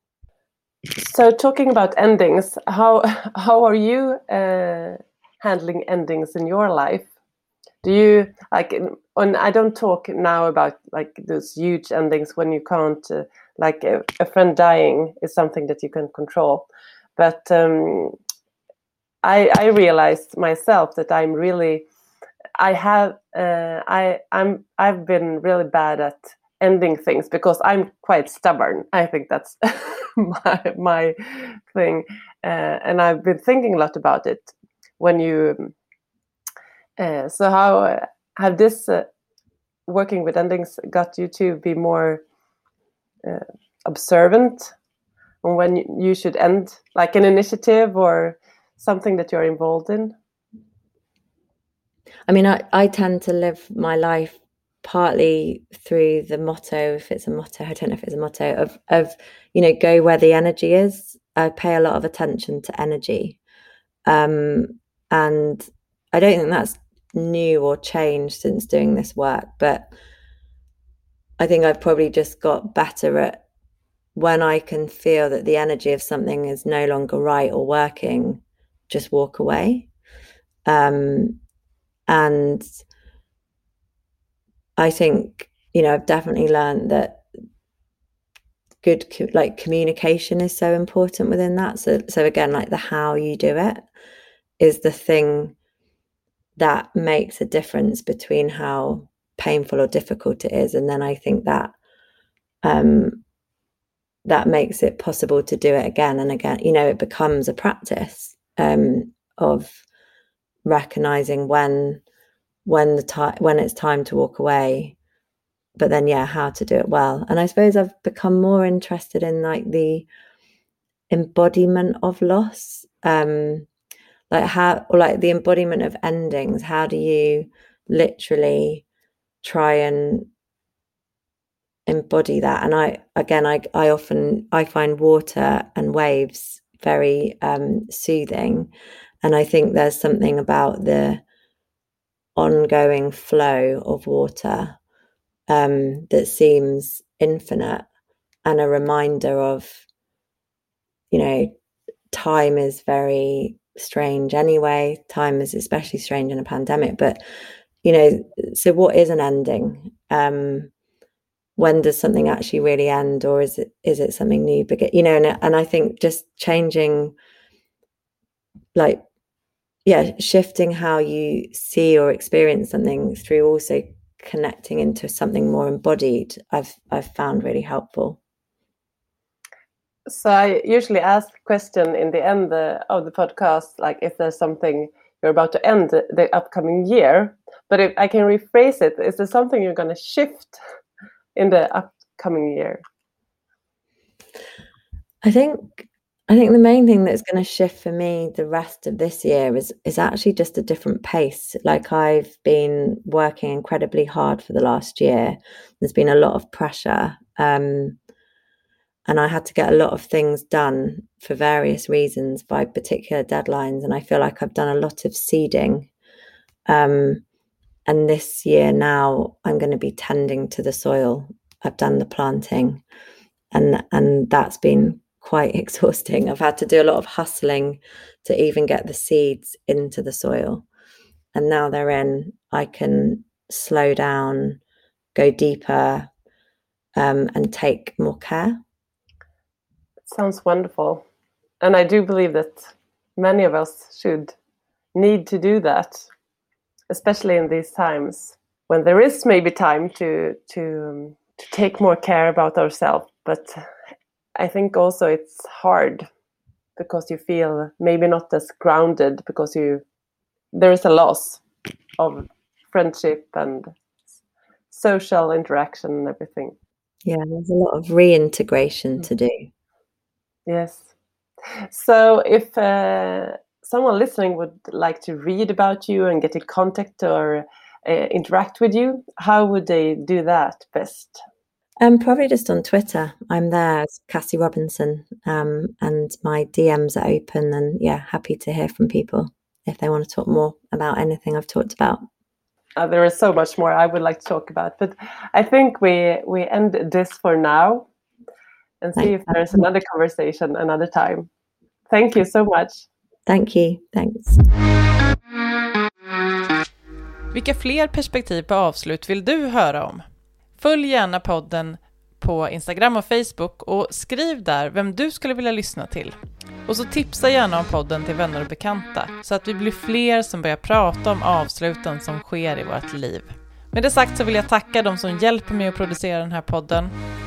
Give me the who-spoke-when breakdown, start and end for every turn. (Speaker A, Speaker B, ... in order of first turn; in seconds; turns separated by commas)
Speaker A: 0.9-7.1, Speaker A: 7.8-18.2, Speaker A: 19.2-21.9, Speaker A: 22.6-35.7, Speaker A: 37.0-39.1, Speaker A: 39.9-42.2, Speaker A: 43.2-44.7, Speaker A: 45.4-50.1, Speaker B: 52.3-63.4, Speaker B: 64.1-69.9, Speaker B: 71.4-73.4, Speaker B: 74.2-79.9, Speaker B: 80.7-81.4, Speaker B: 82.1-82.7, Speaker B: 84.8-87.2, Speaker B: 88.8-93.8, Speaker B: 94.6-95.5, Speaker B: 96.6-101.7, Speaker B: 102.6-103.2, Speaker B: 104.2-109.8, Speaker B: 110.7-112.0, Speaker B: 112.7-115.0, Speaker B: 115.8-120.1, Speaker B: 121.1-123.7, Speaker B: 124.3-128.8, Speaker B: 129.4-130.3, Speaker B: 131.9-138.7, Speaker B: 139.2-141.2, Speaker B: 142.4-144.8, Speaker B: 145.5-147.9, Speaker B: 148.4-149.8, Speaker B: 151.1-151.5, Speaker B: 152.1-157.2, Speaker B: 157.8-160.7, Speaker B: 161.6-167.2, Speaker B: 168.8-169.0, Speaker B: 169.8-178.2, Speaker A: 180.1-190.6, Speaker A: 191.3-192.8, Speaker B: 195.2-208.0, Speaker B: 209.1-215.9, Speaker B: 216.7-217.2, Speaker B: 217.9-222.8, Speaker B: 223.5-230.7, Speaker B: 231.3-234.6, Speaker B: 235.2-236.1, Speaker B: 237.0-238.6, Speaker A: 240.1-241.0, Speaker A: 241.6-244.3, Speaker A: 244.9-246.1, Speaker A: 246.9-253.6, Speaker A: 254.4-256.1, Speaker A: 256.8-259.8, Speaker A: 260.5-261.4, Speaker A: 262.0-263.8, Speaker A: 264.7-266.6, Speaker B: 267.1-269.5, Speaker A: 270.5-270.9, Speaker A: 271.7-281.2, Speaker B: 281.8-292.0, Speaker A: 292.8-297.9, Speaker A: 298.8-301.3, Speaker B: 299.0-299.6, Speaker A: 301.9-302.9, Speaker B: 303.3-304.4, Speaker C: 307.3-310.0, Speaker C: 310.6-326.9